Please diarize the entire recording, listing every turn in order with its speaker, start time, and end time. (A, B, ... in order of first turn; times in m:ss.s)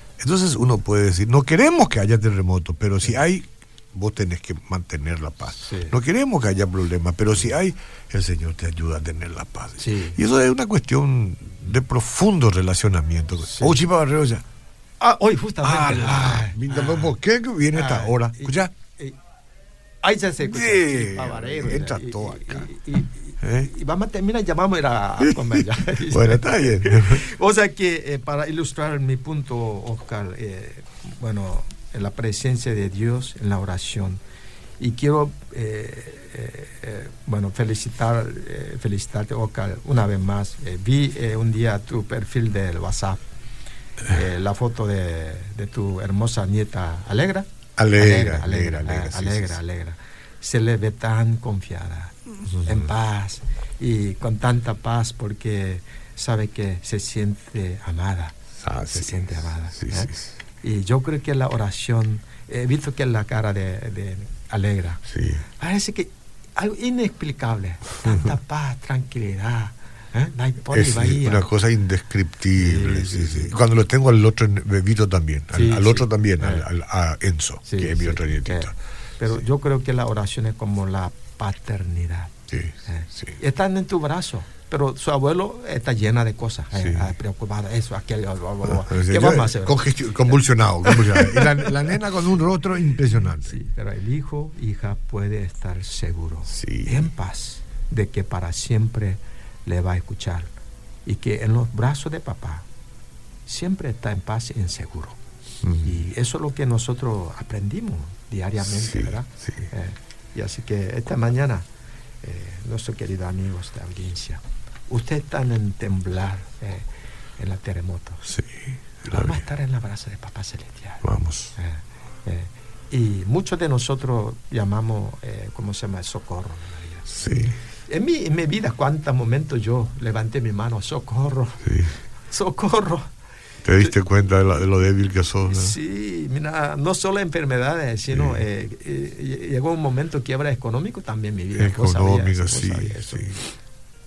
0:00.2-0:14.4 A
0:05.6-0:06.0 B
0:09.8-0:10.2 B
0:13.4-0:13.8 B
0:15.0-0:17.1 B
0:15.6-0:18.7 A
0:17.7-0:19.2 B
0:20.0-0:34.2 B
0:20.4-0:22.7 A
0:23.4-0:23.7 A
0:25.2-0:27.2 A
0:34.8-0:43.2 B
0:44.1-1:05.0 B
0:47.8-0:49.6 A
0:52.5-0:52.9 A
0:58.6-1:00.4 A
1:05.1-1:05.4 A
1:05.6-1:11.5 B
1:08.0-1:08.3 A
1:10.7-1:18.8 A
1:12.6-1:13.5 B
1:15.5-1:16.6 B
1:17.7-1:31.7 B
1:22.5-1:23.4 A
1:26.7-1:27.2 A
1:28.6-1:33.6 A
1:33.4-1:40.5 B
1:36.5-1:37.1 A
1:41.1-1:42.7 B
1:43.5-1:45.2 B
1:45.6-1:46.0 A
1:45.8-1:51.7 B
1:48.6-1:49.6 A
1:52.2-1:56.9 B
1:57.4-1:58.2 B
1:58.2-1:59.4 A
1:59.1-2:01.0 B
2:01.0-2:01.5 A
2:01.6-2:07.2 B
2:07.1-2:07.6 A
2:07.9-2:11.6 B
2:11.6-2:12.0 A
2:12.3-2:13.1 B
2:13.6-2:15.8 A
2:15.4-2:23.4 B
2:18.1-2:18.4 A
2:21.6-2:23.4 A